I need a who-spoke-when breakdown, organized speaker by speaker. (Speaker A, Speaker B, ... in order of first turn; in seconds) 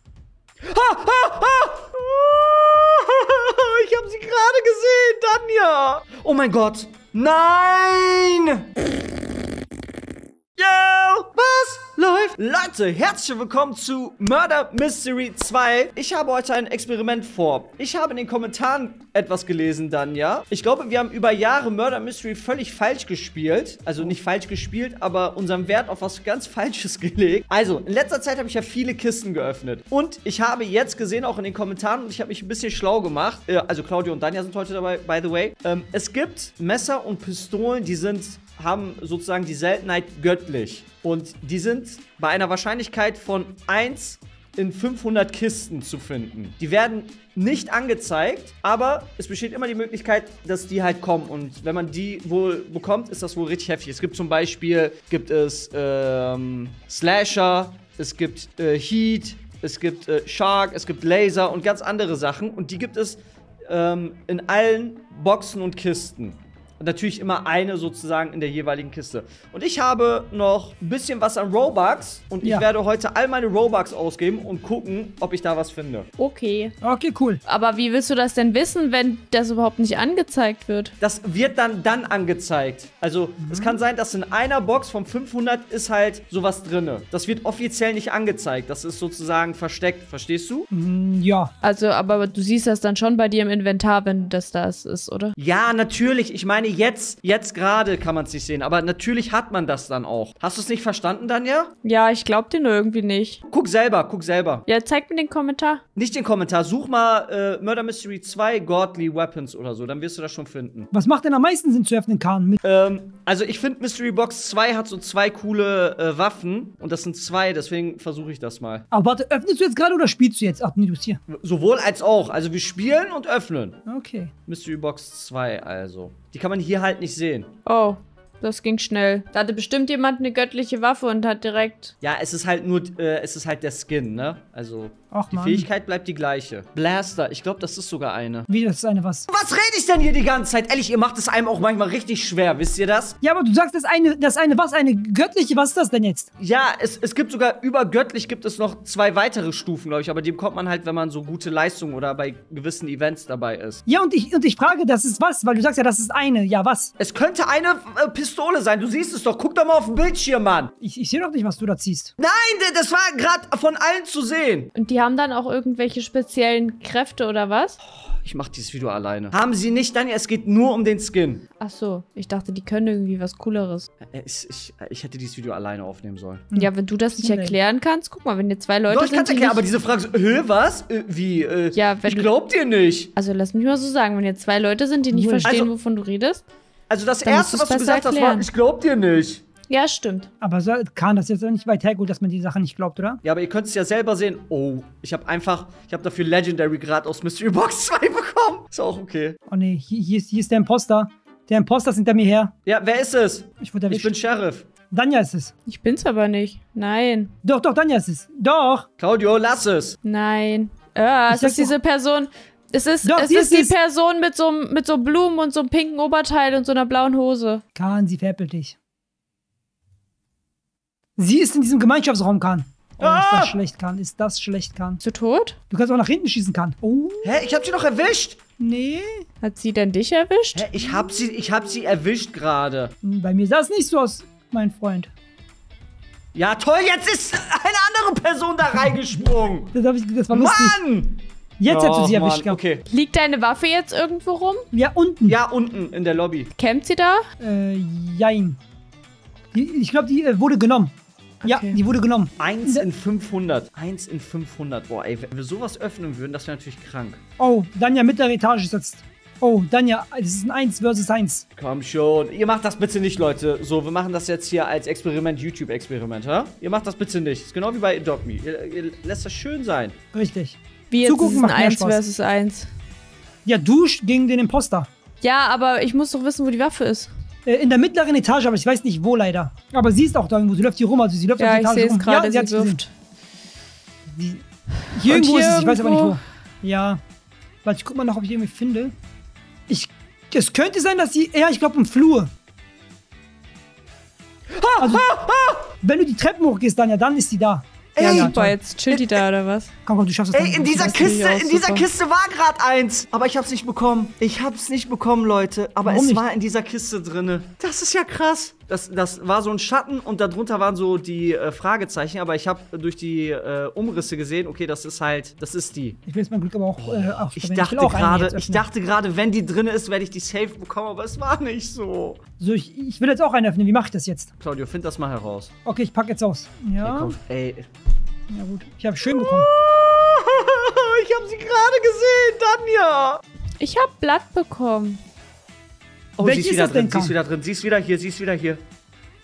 Speaker A: 0.6-8.7, 10.6-76.1, 81.0-90.7, 95.4-101.7, 103.5-104.7, 106.0-110.9, 112.6-118.8, 121.3-123.8, 124.5-127.5, 132.0-138.5, 139.3-143.2, 146.4-153.8, 157.0-160.7, 162.2-164.7, 167.8-171.4, 174.0-176.5, 178.9-183.1, 185.4-185.7, 186.9-189.4, 193.2-199.4, 202.6-204.7, 209.0-209.9, 223.0-223.6, 227.2-228.4, 230.5-232.9, 236.3-239.7, 240.3-242.8, 245.2-246.5, 252.4-257.2, 261.5-269.9, 294.5-295.7, 297.9-298.3, 298.9-299.2, 300.3-316.0, 316.8-322.2, 324.4-325.5, 326.8-327.7, 329.1-333.2, 336.2-338.6
Speaker B: 72.4-72.7, 76.8-77.4, 83.4-83.8, 90.7-91.5, 110.9-112.6, 118.9-121.2, 123.8-124.3, 135.1-135.7, 138.5-139.3, 143.2-146.3, 153.9-156.9, 160.8-162.1, 176.5-177.6, 185.1-185.6, 190.4-193.2, 199.5-202.5, 203.6-204.2, 204.9-205.5, 207.4-208.8, 211.3-211.8, 213.0-213.7, 217.7-218.8, 221.2-225.0, 225.7-227.3, 228.6-229.2, 233.0-235.1, 239.7-240.8, 241.6-242.6, 244.7-245.4, 247.4-248.6, 249.5-252.9, 257.4-261.4, 270.1-272.0, 273.4-274.9, 277.4-282.8, 284.1-287.0, 287.6-288.9, 289.7-292.3, 294.8-295.1, 295.8-298.6, 299.9-301.2, 305.8-306.2, 316.1-318.6, 322.4-324.3, 325.6-327.2, 328.3-329.5, 336.2-337.1
Speaker C: 76.2-76.7, 77.5-80.9, 91.6-95.3, 101.8-103.4, 104.7-105.8, 127.7-131.9, 164.8-167.8, 171.6-173.9, 176.5-179.6, 181.7-182.3, 183.2-186.4, 187.2-188.5, 189.7-190.3, 205.7-207.3, 210.0-217.6, 225.0-225.6, 229.4-230.7, 242.9-244.6, 246.6-247.2, 251.4-251.8, 270.9-272.7, 275.2-277.1, 281.4-282.9, 285.0-286.2, 298.0-299.7, 300.9-301.9, 333.6-335.0